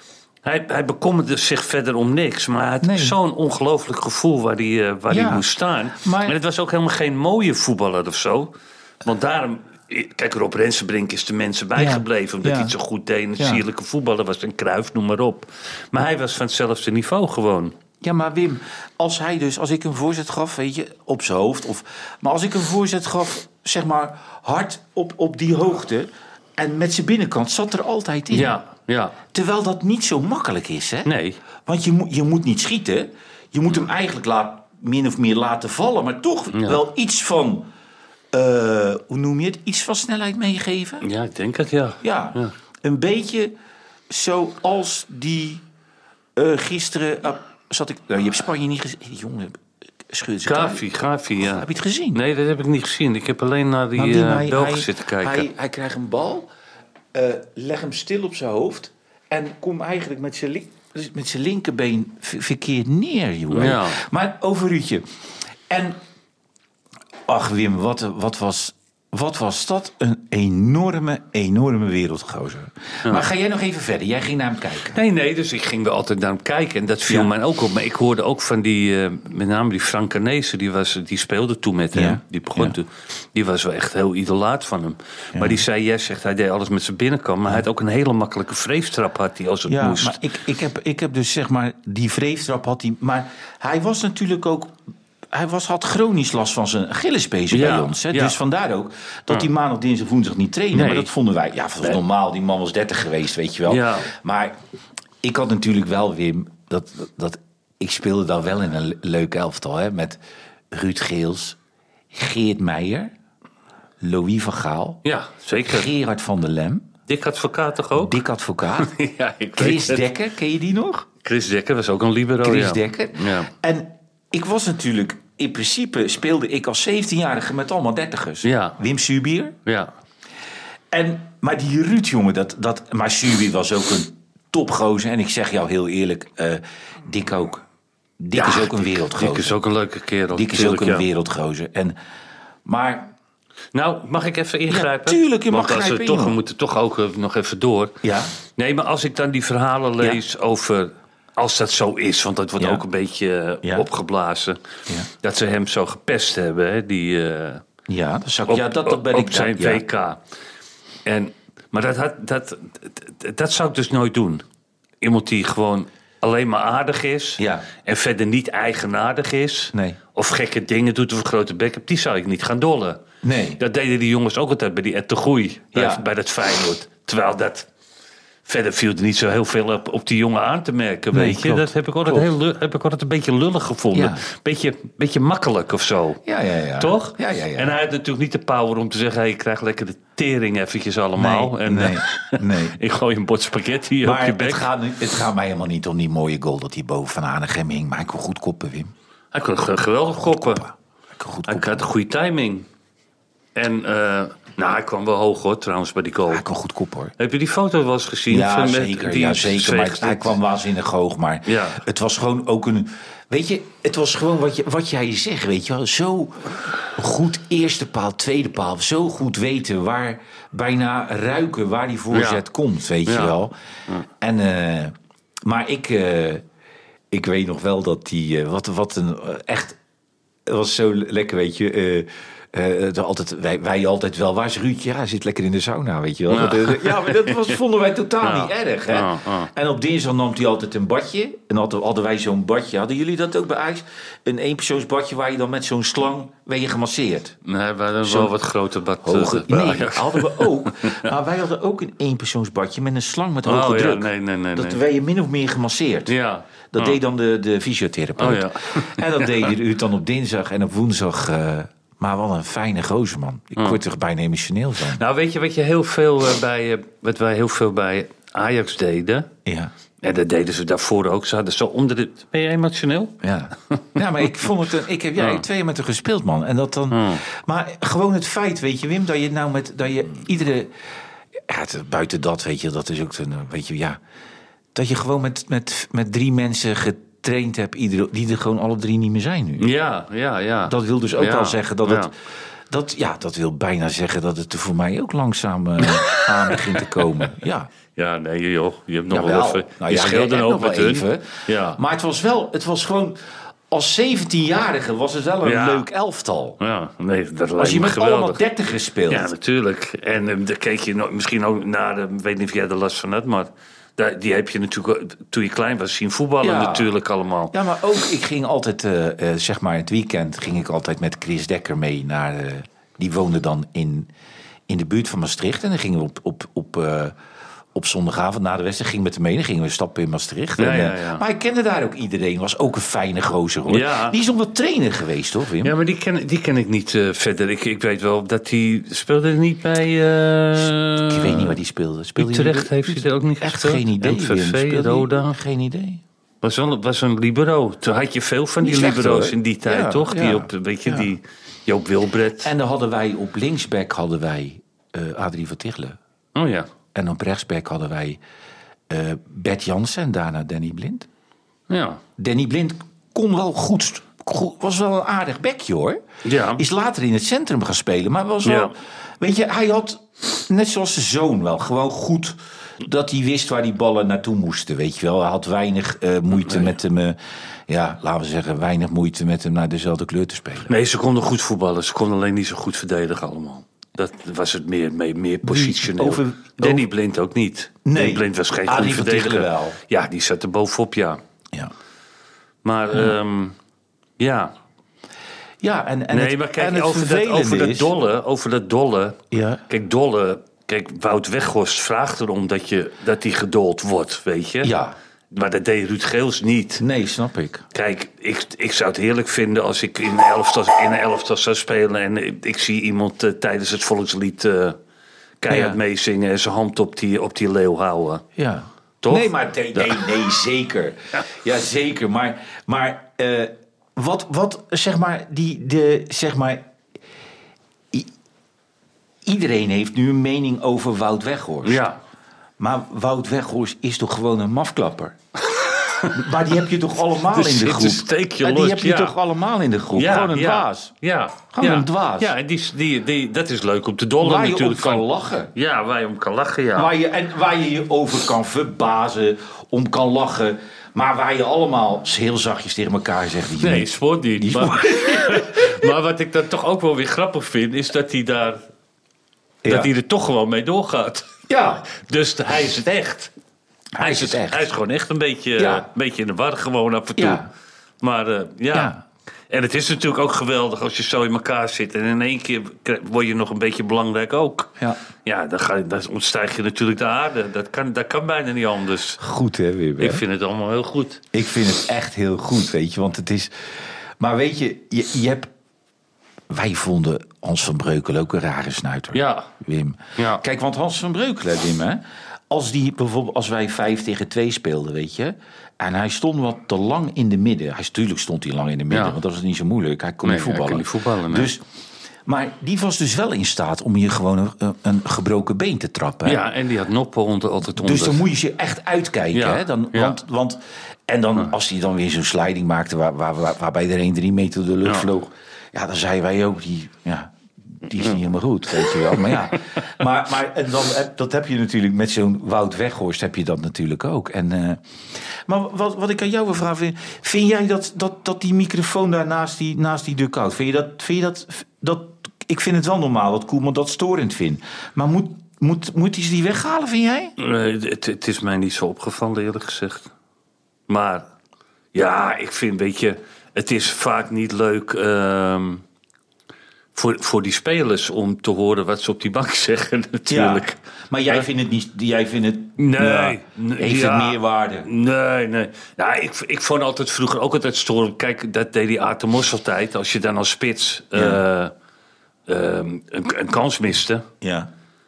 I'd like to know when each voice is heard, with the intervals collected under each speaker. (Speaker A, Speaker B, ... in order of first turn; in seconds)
Speaker A: 0.4-17.8, 28.3-29.2, 31.1-31.4, 36.5-36.8, 41.0-42.5, 50.5-55.5, 63.5-64.0, 74.9-90.2, 97.5-98.4, 100.7-101.1, 103.7-104.1, 115.0-115.9, 117.1-118.2, 118.8-120.1, 121.2-123.5, 128.4-128.8, 129.7-129.9, 138.3-141.1, 143.7-154.6, 155.1-157.6, 158.5-160.2, 161.1-164.4, 165.0-173.0, 173.6-177.7, 178.5-186.2, 186.8-194.7, 199.3-200.7, 201.5-202.7, 203.6-206.4, 207.2-210.4, 211.5-211.8, 222.1-222.4, 223.1-223.4, 236.3-237.6, 238.2-239.5, 247.4-251.1, 253.4-254.8, 256.1-257.0, 258.2-259.5, 264.9-269.3, 270.0-273.2, 275.2-275.4, 276.9-277.2, 289.6-292.1, 295.8-297.0, 297.9-301.8, 305.4-305.9, 306.6-308.4, 309.1-317.5, 330.6-331.2, 333.7-334.2, 335.6-341.6, 342.2-345.4, 346.4-352.5, 356.4-356.7, 361.7-362.0, 366.2-366.6, 368.4-368.7, 376.4-376.7, 380.7-391.2, 392.6-393.6, 394.2-394.5, 396.1-404.7, 405.3-406.8, 407.7-414.8, 415.4-418.2, 419.0-420.1, 431.6-432.0, 435.5-436.3, 437.3-439.2, 439.9-446.9, 453.6-458.6, 459.6-461.3, 461.9-463.3, 464.0-467.5, 468.0-468.9, 469.5-479.2, 480.0-481.2, 489.1-489.5, 490.2-490.4, 498.9-499.2, 500.2-501.5, 506.2-508.2, 509.3-510.2, 518.8-519.3, 537.4-540.1, 540.9-541.3, 541.9-545.8, 547.0-550.8, 552.8-561.7, 562.5-564.3
Speaker B: 2.8-3.2, 5.1-6.4, 11.8-12.8, 13.4-13.6, 18.0-28.6, 29.3-31.1, 31.6-37.7, 38.3-41.0, 42.0-43.5, 44.1-45.6, 46.4-50.9, 51.4-52.2, 54.0-56.5, 57.1-65.1, 65.7-66.0, 67.3-75.0, 81.9-82.8, 85.3-85.6, 89.7-94.8, 95.3-104.6, 105.2-110.2, 110.7-111.6, 112.1-113.1, 114.0-115.0, 115.6-116.9, 118.0-118.9, 119.6-121.1, 122.4-129.6, 130.9-137.7, 138.2-139.6, 140.3-142.0, 142.7-143.1, 144.7-146.4, 148.0-148.3, 152.6-152.8, 157.9-159.8, 167.4-167.7, 173.2-173.6, 175.7-176.0, 181.1-182.3, 183.9-184.2, 186.2-187.7, 191.2-192.8, 194.0-198.9, 200.4-201.8, 206.3-207.2, 208.3-223.5, 224.2-226.4, 227.1-229.8, 230.5-247.4, 248.0-248.3, 249.0-256.1, 256.7-265.0, 269.4-269.7, 273.2-280.7, 281.4-284.0, 284.8-289.7, 290.6-292.1, 292.7-297.7, 299.1-306.6, 307.6-309.3, 316.4-316.9, 317.5-324.1, 324.7-327.2, 327.8-335.7, 341.1-346.0, 348.6-351.1, 352.4-356.0, 356.9-358.2, 358.9-361.1, 362.2-366.0, 366.6-380.7, 385.4-386.9, 387.9-389.8, 395.6-397.9, 399.3-399.6, 404.6-405.0, 406.8-407.7, 415.5-415.8, 418.4-426.7, 429.2-431.9, 432.6-435.2, 436.1-440.9, 441.5-442.3, 444.2-445.5, 446.8-455.9, 459.6-459.9, 461.5-461.9, 463.9-464.7, 465.6-465.9, 467.2-467.5, 468.7-469.0, 479.2-480.2, 481.3-483.5, 484.2-485.5, 486.5-501.6, 502.3-506.4, 507.8-537.3, 550.3-554.9, 561.1-561.4, 564.4-564.7